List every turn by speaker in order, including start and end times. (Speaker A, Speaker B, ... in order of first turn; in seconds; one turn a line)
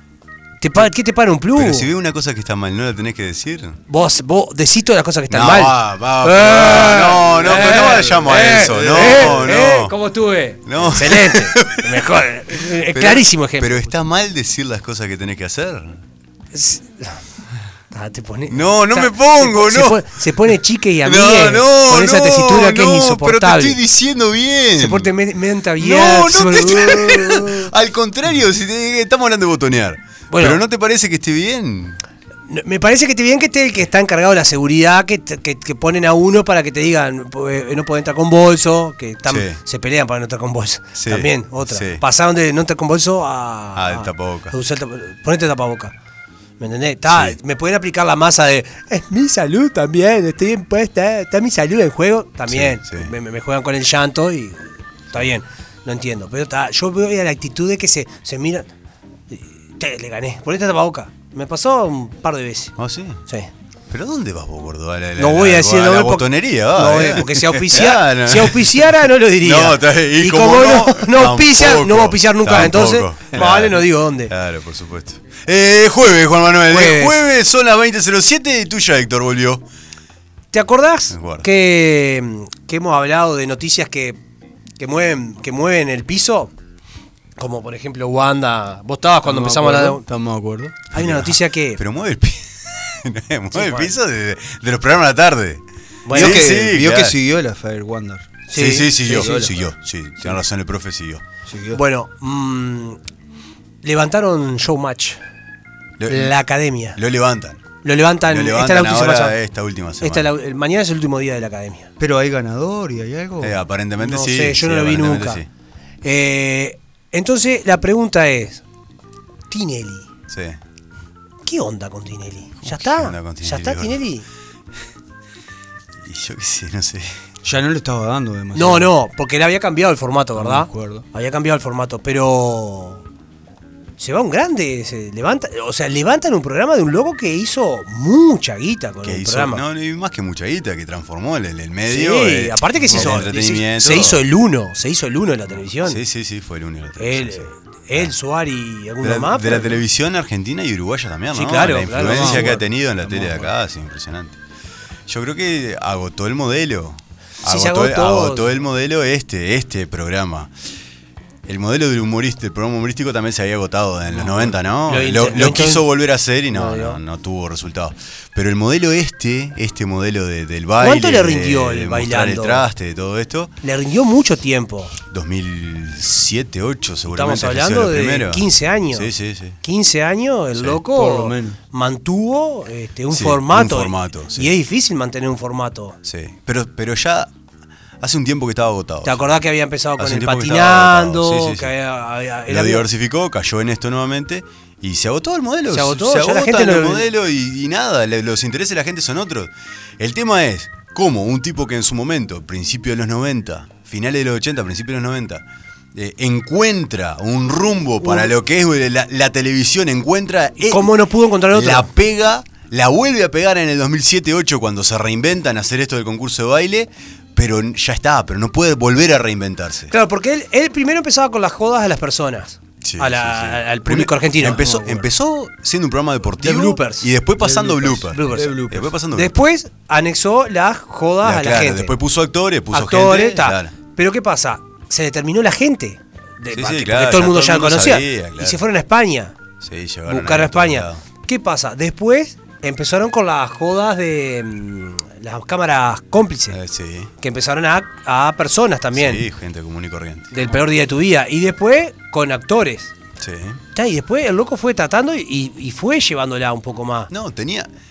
Speaker A: 0.6-1.9
Speaker B: 1.5-3.8
Speaker A: 3.9-13.8
Speaker B: 5.3-9.9
Speaker C: 9.0-9.3
Speaker B: 10.7-16.0
Speaker A: 16.5-17.2
Speaker A: 17.9-23.8
Speaker B: 18.5-20.2
Speaker B: 21.0-25.1
Speaker A: 24.8-27.7
Speaker B: 25.8-32.0
Speaker A: 30.3-30.6
Speaker A: 32.5-45.9
Speaker B: 39.3-39.6
Speaker B: 40.9-42.0
Speaker B: 43.8-44.5
Speaker A: 46.6-58.7
Speaker B: 47.1-47.4
Speaker B: 52.5-53.1
Speaker A: 59.3-62.8
Speaker B: 62.8-63.2
Speaker B: 63.9-79.7
Speaker A: 65.2-74.3
Speaker A: 76.7-77.2
Speaker A: 80.5-84.2
Speaker B: 81.1-81.5
Speaker A: 84.8-86.5
Speaker A: 87.4-90.0
Speaker C: 89.2-90.8
Speaker A: 90.9-91.8
Speaker B: 90.9-97.2
Speaker A: 93.5-93.9
Speaker A: 96.0-96.5
Speaker C: 96.1-98.4
Speaker A: 98.5-99.3
Speaker B: 98.5-101.2
Speaker C: 99.0-99.7
Speaker C: 101.5-101.8
Speaker A: 101.7-103.0
Speaker A: 103.8-105.2
Speaker B: 106.0-106.3
Speaker A: 106.1-107.0
Speaker B: 107.0-107.6
Speaker A: 107.8-109.4
Speaker B: 108.2-110.3
Speaker A: 110.0-111.9
Speaker C: 112.0-113.5
Speaker B: 113.4-115.5
Speaker A: 114.0-115.4
Speaker A: 116.0-118.6
Speaker A: 119.5-120.1
Speaker B: 120.3-120.6
Speaker A: 121.4-124.3
Speaker B: 122.6-124.0
Speaker B: 126.0-127.2
Speaker C: 127.4-128.9
Speaker A: 128.5-133.0
Speaker C: 130.4-131.0
Speaker A: 134.0-139.6
Speaker B: 139.0-144.2
Speaker A: 141.9-146.0
Speaker C: 142.9-143.2
Speaker B: 145.8-148.1
Speaker A: 147.0-149.8
Speaker B: 149.0-154.4
Speaker A: 151.3-153.5
Speaker C: 152.0-152.6
Speaker B: 155.1-160.5
Speaker A: 157.4-158.6
Speaker B: 161.4-173.5
Speaker A: 164.1-165.9
Speaker A: 166.5-167.0
Speaker A: 170.8-172.7
Speaker A: 173.6-175.0
Speaker B: 175.1-179.6
Speaker A: 177.1-179.1
Speaker A: 179.6-186.0
Speaker B: 180.5-180.8
Speaker C: 180.9-181.6
Speaker B: 183.1-184.5
Speaker B: 186.0-187.3
Speaker B: 188.0-189.3
Speaker A: 189.0-192.9
Speaker B: 190.0-191.7
Speaker B: 192.5-210.9
Speaker A: 195.7-197.1
Speaker A: 208.0-208.3
Speaker A: 210.6-211.9
Speaker B: 211.5-219.9
Speaker A: 219.9-224.6
Speaker B: 222.8-229.3
Speaker C: 224.4-225.1
Speaker A: 226.4-227.1
Speaker C: 227.4-228.9
Speaker A: 228.1-228.6
Speaker A: 229.1-231.9
Speaker B: 231.2-233.7
Speaker A: 232.7-239.3
Speaker B: 236.5-238.6
Speaker B: 239.6-241.0
Speaker A: 240.1-246.6
Speaker B: 246.5-247.1
Speaker A: 247.2-249.2
Speaker B: 248.9-250.6
Speaker A: 250.3-252.9
Speaker B: 253.2-253.6
Speaker A: 253.7-257.1
Speaker B: 257.1-257.7